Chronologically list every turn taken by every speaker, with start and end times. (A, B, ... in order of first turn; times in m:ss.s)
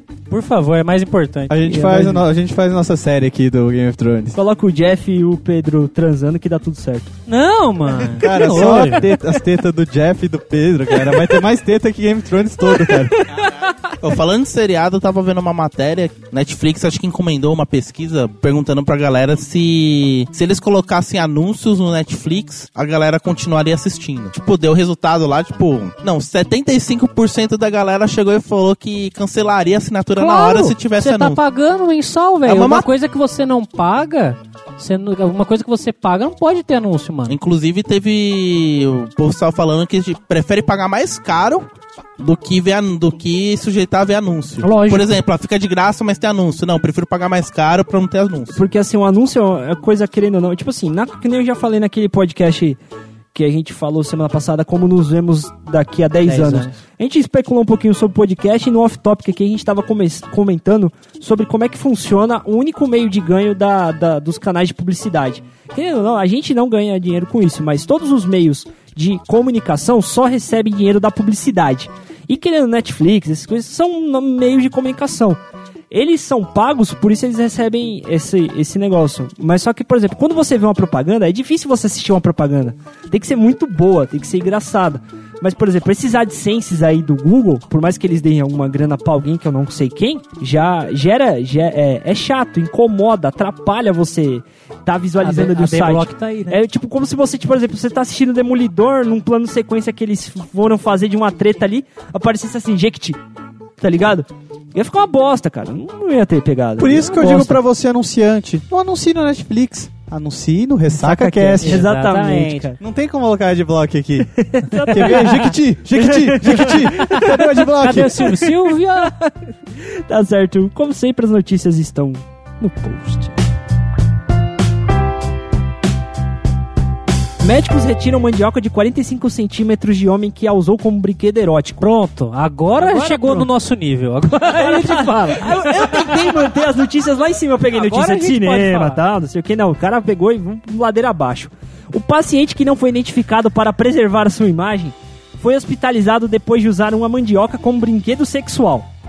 0:00.3-0:02.0 A
0:01.5-0:04.4 B
0:01.7-0:02.1 C
0:04.4-0:07.1 C
0:07.3-0:09.1 A
0:08.2-0:13.4 B
0:14.0-0:31.4 D
0:30.2-0:37.4 A
0:32.4-0:32.9 D
0:37.3-0:48.6 D
0:44.6-0:45.2 A
0:48.6-0:52.8 C
0:53.3-1:15.4 C
0:56.2-0:56.8 A
1:15.9-1:43.2 C
1:35.2-1:36.6 A
1:43.8-1:47.6 C
1:46.8-1:51.9 B
1:51.0-1:52.7 A
1:51.6-1:52.8 C
1:52.8-1:54.3 B
1:54.3-2:03.4 C
1:54.8-1:55.4 A
1:54.9-1:58.3 B
1:56.8-1:59.1 A
2:07.4-2:11.9 C
2:11.8-2:16.4 A
2:12.8-2:13.5 C
2:14.4-2:28.9 C
2:17.7-2:19.0 A